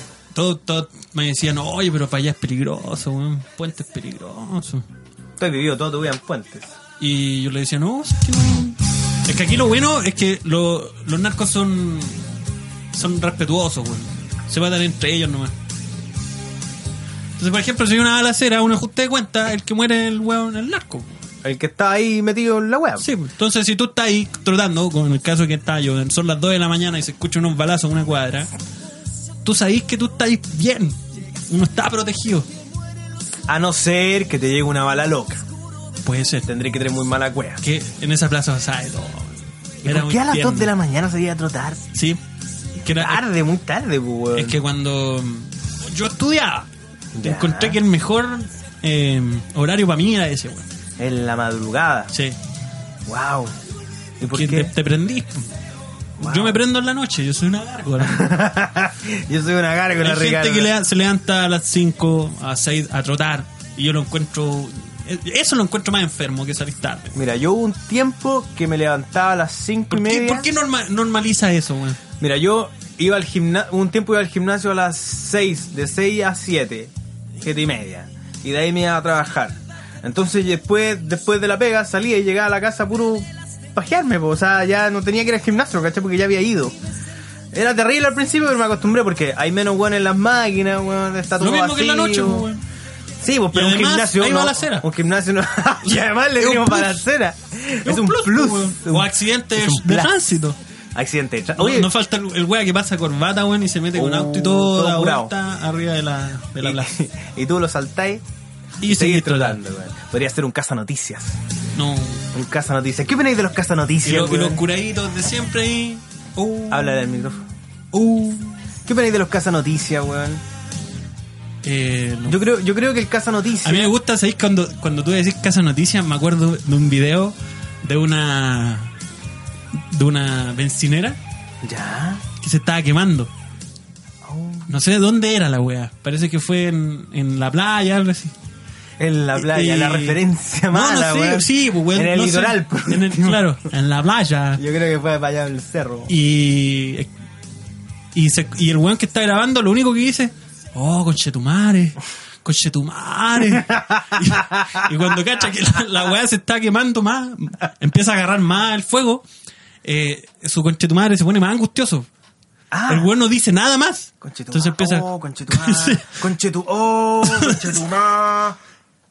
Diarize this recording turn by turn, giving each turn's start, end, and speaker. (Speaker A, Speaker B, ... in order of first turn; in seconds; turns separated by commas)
Speaker A: 0.3-4.8, Speaker B: 5.4-6.7, Speaker A: 7.0-12.2, Speaker A: 12.9-15.6, Speaker A: 17.4-21.1, Speaker B: 21.4-23.1, Speaker A: 23.0-28.5, Speaker A: 29.4-32.5, Speaker B: 33.5-35.4, Speaker A: 36.0-36.5, Speaker B: 36.5-37.6, Speaker A: 37.6-40.7, Speaker B: 39.8-41.9, Speaker A: 41.9-42.2, Speaker A: 42.8-43.2, Speaker B: 42.9-44.6, Speaker A: 44.3-46.7, Speaker B: 47.1-47.8, Speaker A: 47.2-50.7, Speaker B: 51.0-52.1, Speaker A: 52.1-52.4, Speaker B: 53.1-53.5, Speaker B: 54.2-54.7, Speaker A: 54.3-55.5, Speaker B: 56.2-56.6, Speaker A: 56.2-58.3, Speaker B: 58.0-60.7, Speaker A: 60.0-67.2, Speaker B: 67.2-70.5, Speaker A: 69.9-72.0, Speaker B: 72.2-86.8, Speaker B: 87.5-92.5, Speaker A: 91.4-92.6, Speaker B: 93.2-100.1, Speaker A: 93.5-94.9, Speaker A: 95.9-97.0, Speaker A: 97.8-100.6, Speaker B: 101.0-101.9, Speaker A: 101.6-106.9, Speaker B: 104.0-105.3, Speaker B: 106.6-108.2, Speaker A: 108.8-109.6, Speaker B: 108.9-111.4, Speaker A: 111.8-112.3, Speaker B: 112.3-114.6, Speaker A: 114.0-117.2, Speaker B: 116.7-117.5, Speaker A: 117.9-118.6, Speaker B: 118.8-120.4, Speaker A: 121.6-122.4, Speaker B: 122.3-123.9, Speaker A: 123.6-128.9, Speaker A: 129.7-131.2, Speaker B: 131.6-132.3, Speaker A: 132.4-133.3, Speaker B: 134.2-134.7, Speaker A: 134.7-138.3, Speaker B: 139.0-143.4, Speaker A: 139.3-144.6, Speaker B: 144.6-146.1, Speaker A: 146.1-147.1, Speaker A: 148.1-159.2, Speaker B: 153.7-154.9, Speaker A: 159.8-162.1, Speaker B: 162.7-163.1, Speaker A: 162.9-166.2, Speaker B: 164.2-168.6, Speaker A: 167.2-167.8